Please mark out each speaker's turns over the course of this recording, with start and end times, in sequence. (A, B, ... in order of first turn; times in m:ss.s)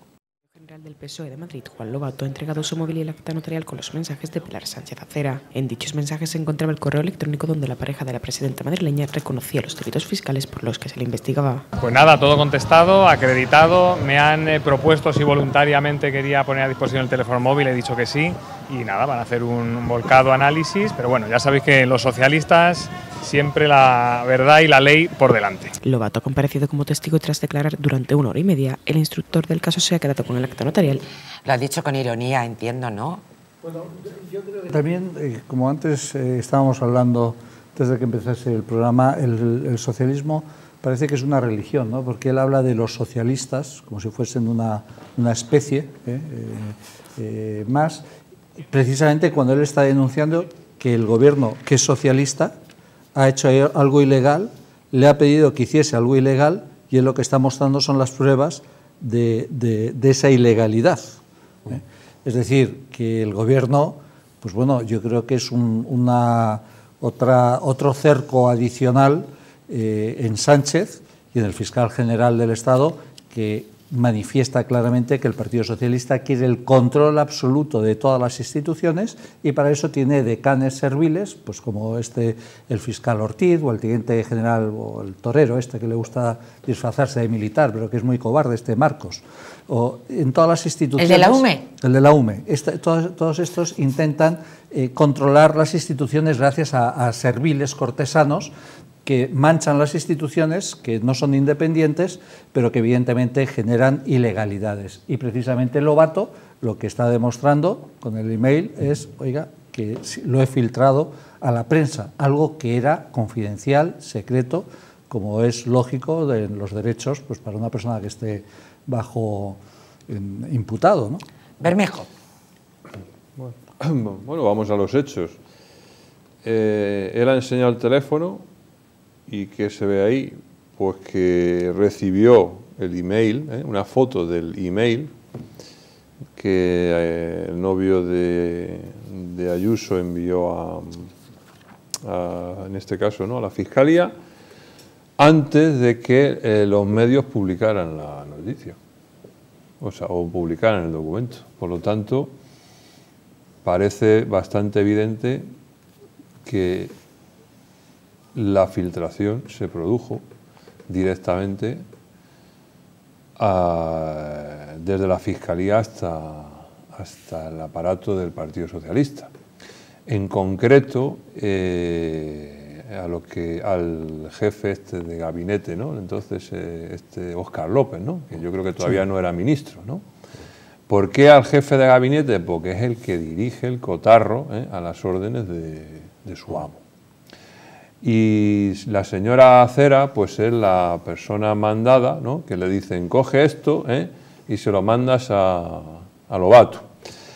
0:00.6-0:11.6 A
0:11.8-0:25.7 B
0:25.8-0:31.0 A
0:31.4-0:33.2 C
0:33.6-0:48.0 D
0:48.7-0:52.5 D
0:53.1-1:38.5 D
1:31.0-1:31.6 C
1:39.0-2:01.2 D
2:01.6-2:02.1 C
2:03.4-2:05.4 E
2:06.4-2:08.4 E
2:09.3-2:15.1 E
2:16.4-2:21.1 E
2:22.0-2:24.1 E
2:25.2-2:28.8 E
2:29.8-2:32.3 E
2:33.6-2:35.4 E
2:36.4-2:36.9 E
2:38.3-2:40.2 E
2:40.9-2:41.8 E
2:43.4-2:49.3 E
2:50.1-3:00.0 E
3:00.9-3:06.8 E
3:08.0-3:16.8 E